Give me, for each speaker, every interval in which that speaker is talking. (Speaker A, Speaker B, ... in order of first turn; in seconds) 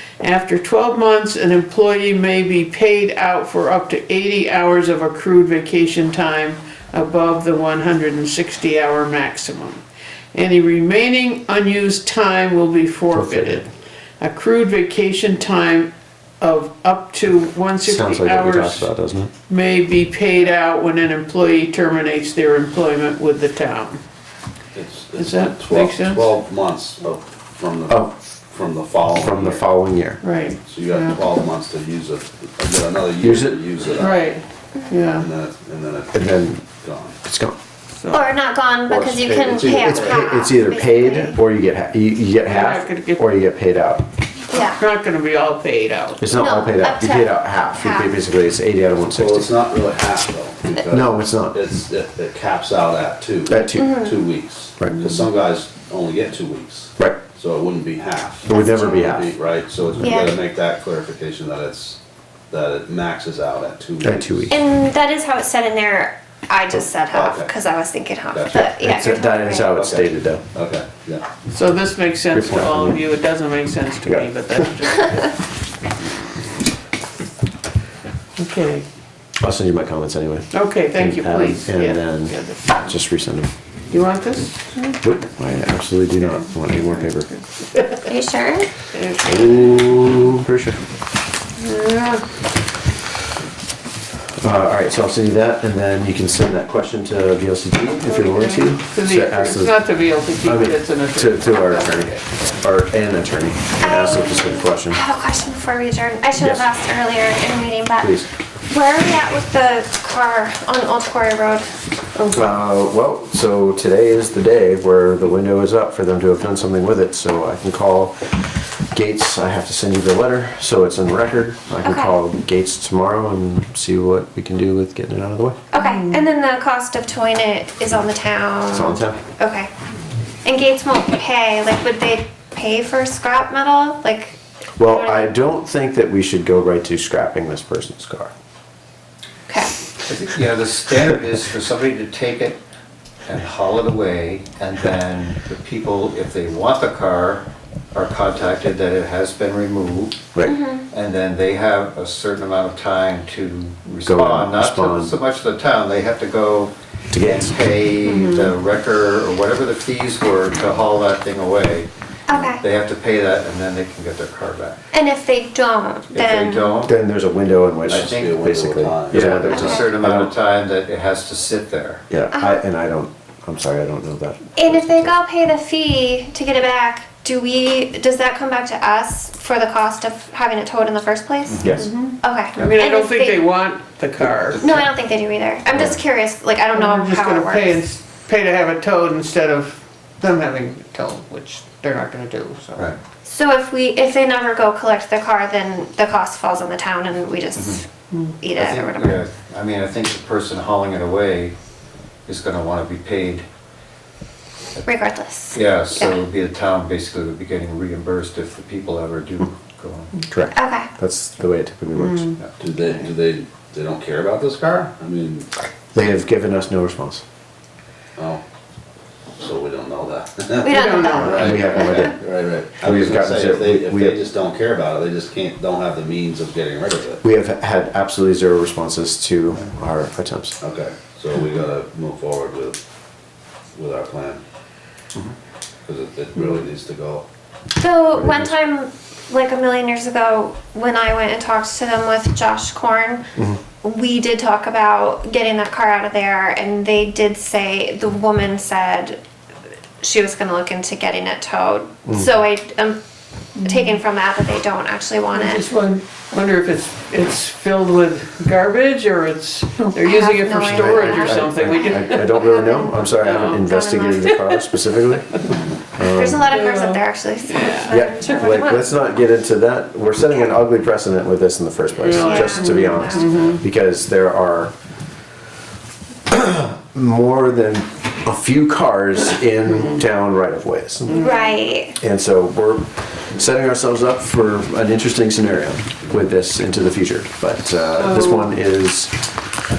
Speaker A: 0.2-18.9, 19.5-24.0, 25.2-26.4, 30.2-31.2, 34.0-35.3, 38.0-38.3, 42.5-43.3, 44.8-46.2, 71.5-75.4, 78.4-78.9, 80.5-82.9, 83.9-85.0, 88.9-89.9, 91.6-92.2, 98.1-102.1, 125.8-126.2, 158.0-158.5, 181.8-184.8, 186.7-192.8, 212.0-212.8, 220.7-221.4, 253.6-254.0, 255.3-264.6, 266.5-268.8, 272.0-273.6, 281.1-281.6, 288.0-288.5
Speaker B: 13.1-13.6, 17.8-19.3, 29.1-30.2, 33.2-33.6, 36.1-36.6, 37.2-37.6, 39.5-44.1, 46.2-49.5, 50.8-51.6, 53.5-54.1, 54.8-55.1, 58.5-59.3, 64.0-64.6, 68.6-70.4, 72.3-73.0, 74.0-74.7, 79.4-83.5, 85.0-87.3, 89.2-90.8, 94.4-99.8, 100.4-105.0, 106.4-106.7, 108.0-108.3, 112.3-125.6, 128.7-129.2, 134.8-138.3, 154.1-155.2, 157.1-157.6, 166.8-170.3, 172.1-175.2, 181.6-181.9, 210.3-212.3, 215.9-217.2, 221.2-222.2, 222.7-224.2, 227.2-230.6, 238.2-238.5, 260.7-266.6, 267.9-274.7, 276.3-281.2, 282.0-289.5
Speaker C: 24.7-29.7, 30.7-34.3, 35.1-37.2, 38.9-40.1, 49.1-62.0, 62.5-64.5, 67.1-67.5, 68.3-68.7, 69.7-71.3, 167.9-169.7, 212.6-215.5, 218.2-218.4, 219.4-227.2, 230.6-232.8, 233.8-234.4, 235.9-237.2
Speaker D: 38.1-41.4, 44.5-44.8, 46.4-48.2, 53.7-54.1, 58.5-59.2, 60.0-60.4, 64.5-69.8, 88.1-88.7, 103.8-112.4, 121.8-122.2, 125.7-129.7, 130.4-135.3, 139.5-139.7, 150.5-150.8, 162.3-162.6, 164.9-166.8, 169.2-169.9, 172.3-172.6, 174.6-183.4, 184.6-187.8, 193.2-197.9, 198.4-199.2, 204.8-206.2, 210.5-210.9, 220.6-222.2, 237.8-243.3, 243.8-249.2, 250.0-253.0, 253.6-255.7, 259.9-264.3, 266.0-268.9, 272.2-273.4, 281.1-282.0
Speaker E: 140.1-142.6, 143.3-150.3, 150.9-161.9, 162.4-164.8, 166.1-166.9, 167.9-168.4, 169.1-172.1, 181.5-181.8, 197.6-197.8, 198.5-201.6, 202.3-203.5, 205.5-210.2